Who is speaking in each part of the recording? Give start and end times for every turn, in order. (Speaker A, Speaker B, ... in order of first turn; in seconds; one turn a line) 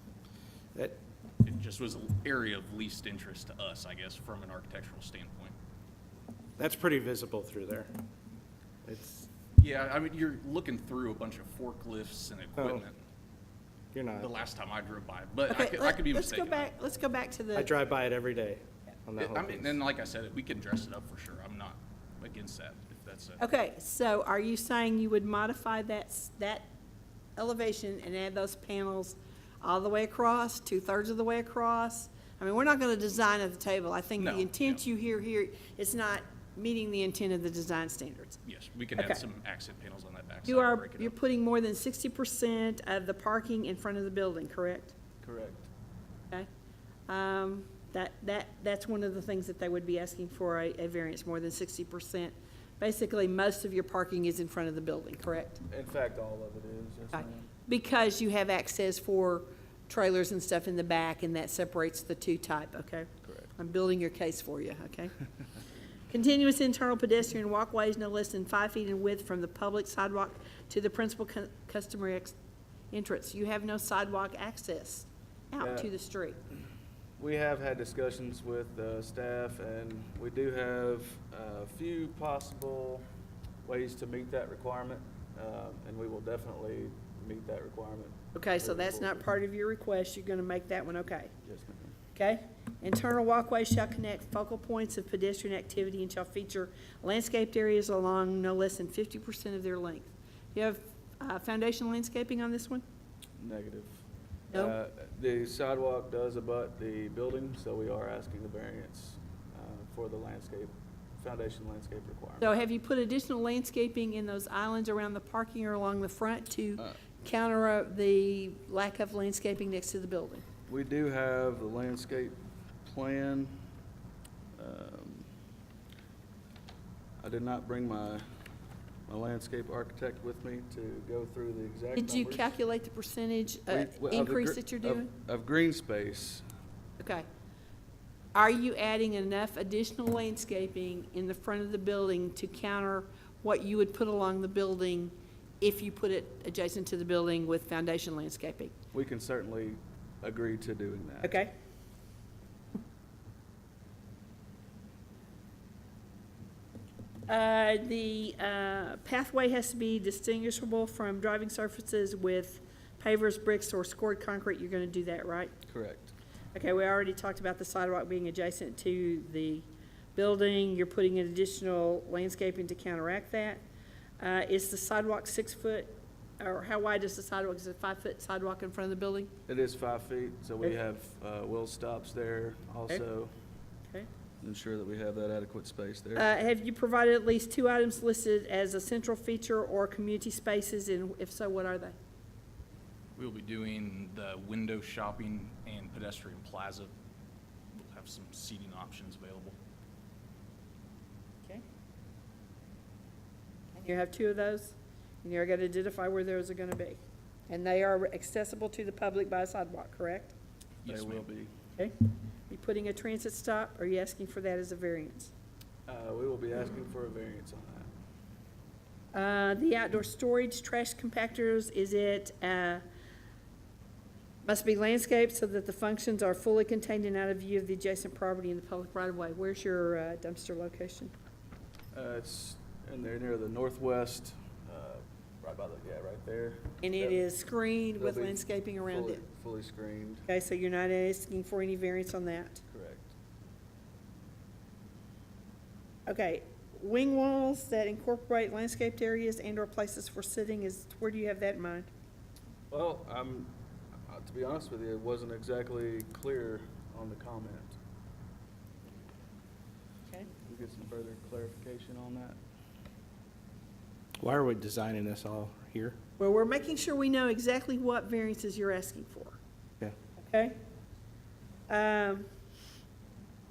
Speaker A: 1.4-5.5
Speaker B: 6.6-7.9
Speaker B: 8.8-9.3
Speaker A: 9.6-13.0
Speaker B: 13.9-14.3
Speaker A: 14.1-16.7
Speaker C: 15.5-17.7
Speaker B: 17.5-19.8
Speaker A: 19.2-23.4
Speaker C: 23.4-26.7
Speaker C: 27.4-38.4
Speaker A: 34.2-34.8
Speaker A: 38.4-41.1
Speaker C: 40.5-44.9
Speaker D: 45.2-45.7
Speaker C: 47.1-55.6
Speaker D: 55.7-57.5
Speaker C: 57.1-65.1
Speaker D: 63.2-63.5
Speaker C: 66.1-72.3
Speaker C: 72.9-76.4
Speaker D: 75.6-75.9
Speaker D: 77.2-83.0
Speaker D: 83.6-89.3
Speaker C: 88.3-91.3
Speaker D: 91.4-92.0
Speaker C: 92.1-102.8
Speaker D: 103.4-112.5
Speaker C: 112.4-120.5
Speaker D: 120.7-123.6
Speaker D: 124.5-125.3
Speaker D: 127.2-128.2
Speaker D: 129.1-132.5
Speaker C: 131.9-135.1
Speaker D: 133.7-136.4
Speaker C: 137.0-137.2
Speaker C: 138.3-148.7
Speaker D: 148.9-151.4
Speaker C: 151.2-151.5
Speaker C: 157.3-165.5
Speaker D: 165.7-166.1
Speaker C: 166.5-173.6
Speaker C: 174.2-179.3
Speaker D: 179.5-183.3
Speaker D: 184.4-186.3
Speaker C: 186.2-191.9
Speaker A: 193.2-196.9
Speaker A: 197.8-199.6
Speaker C: 203.7-210.3
Speaker A: 210.8-211.2
Speaker D: 210.8-211.5
Speaker C: 211.8-215.3
Speaker D: 215.8-217.9
Speaker C: 219.1-222.8
Speaker C: 224.4-231.1
Speaker D: 231.9-237.2
Speaker C: 236.8-239.2
Speaker D: 238.0-240.2
Speaker C: 240.3-242.6
Speaker D: 242.7-243.1
Speaker C: 246.1-251.9
Speaker D: 252.7-253.5
Speaker D: 254.1-257.8
Speaker D: 260.4-262.4
Speaker B: 264.2-266.0
Speaker C: 266.2-269.4
Speaker C: 270.2-270.6
Speaker C: 271.7-272.2